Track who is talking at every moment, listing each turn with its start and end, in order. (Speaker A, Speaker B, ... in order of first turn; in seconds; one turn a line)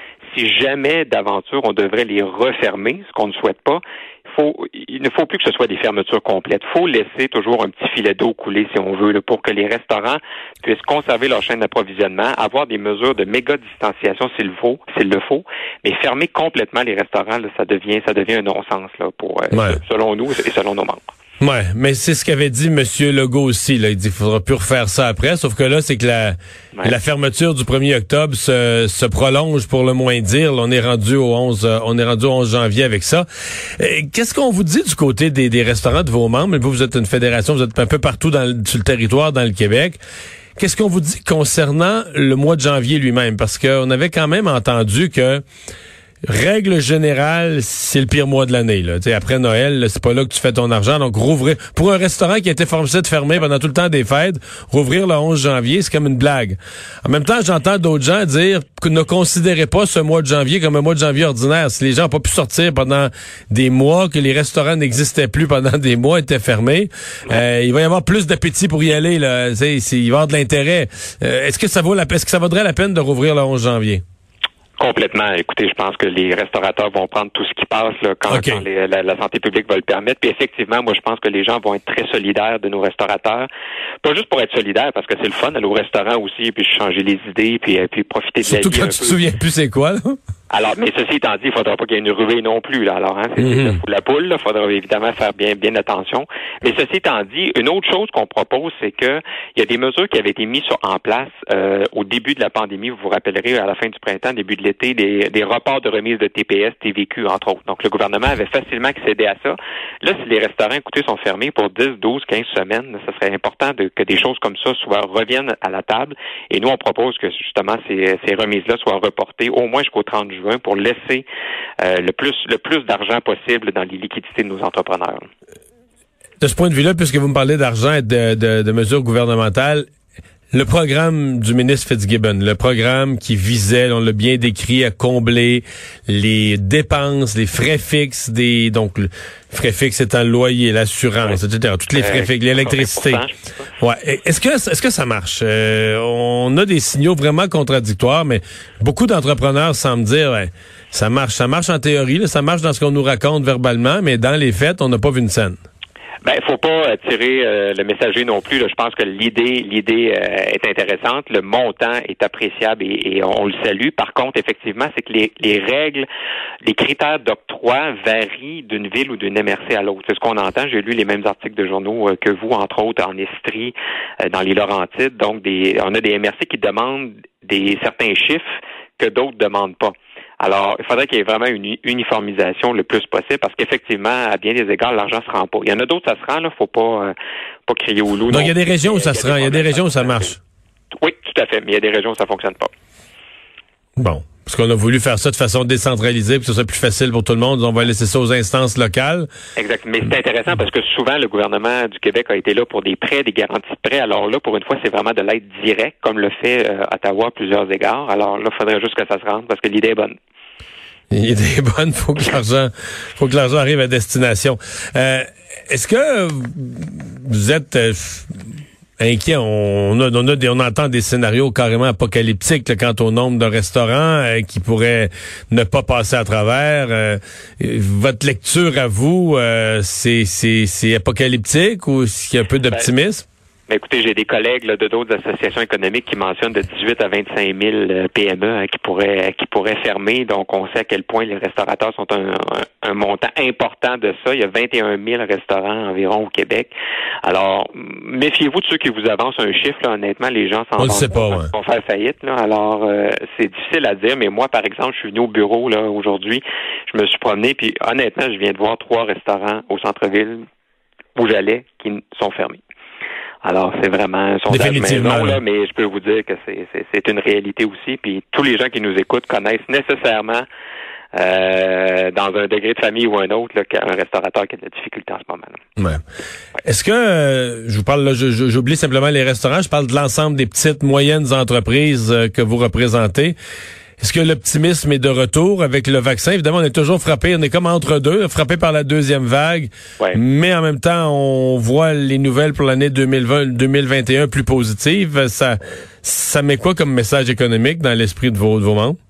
Speaker A: 0.3-21.1
Speaker B: 19.5-19.8
Speaker B: 21.4-33.3
Speaker B: 33.8-40.0
Speaker B: 40.6-45.4
Speaker B: 46.3-74.0
Speaker A: 74.8-83.5
Speaker B: 78.3-78.6
Speaker A: 84.0-89.2
Speaker B: 88.4-90.2
Speaker A: 90.5-121.2
Speaker B: 93.4-93.8
Speaker A: 121.8-125.3
Speaker B: 126.4-129.9
Speaker B: 130.5-143.2
Speaker A: 142.0-143.4
Speaker B: 143.8-155.6
Speaker A: 156.2-166.1
Speaker A: 166.6-178.4
Speaker A: 179.0-187.1
Speaker A: 187.7-190.3
Speaker B: 188.3-190.4
Speaker A: 190.9-192.7
Speaker B: 194.0-199.3
Speaker A: 199.6-210.2
Speaker B: 211.1-218.4
Speaker B: 219.0-233.2
Speaker A: 233.7-246.7
Speaker A: 247.2-260.4
Speaker B: 250.8-251.5
Speaker A: 261.2-262.6
Speaker A: 263.4-270.5
Speaker B: 264.5-265.4
Speaker A: 271.1-275.6
Speaker B: 275.8-276.0
Speaker B: 276.6-283.4
Speaker B: 284.0-299.0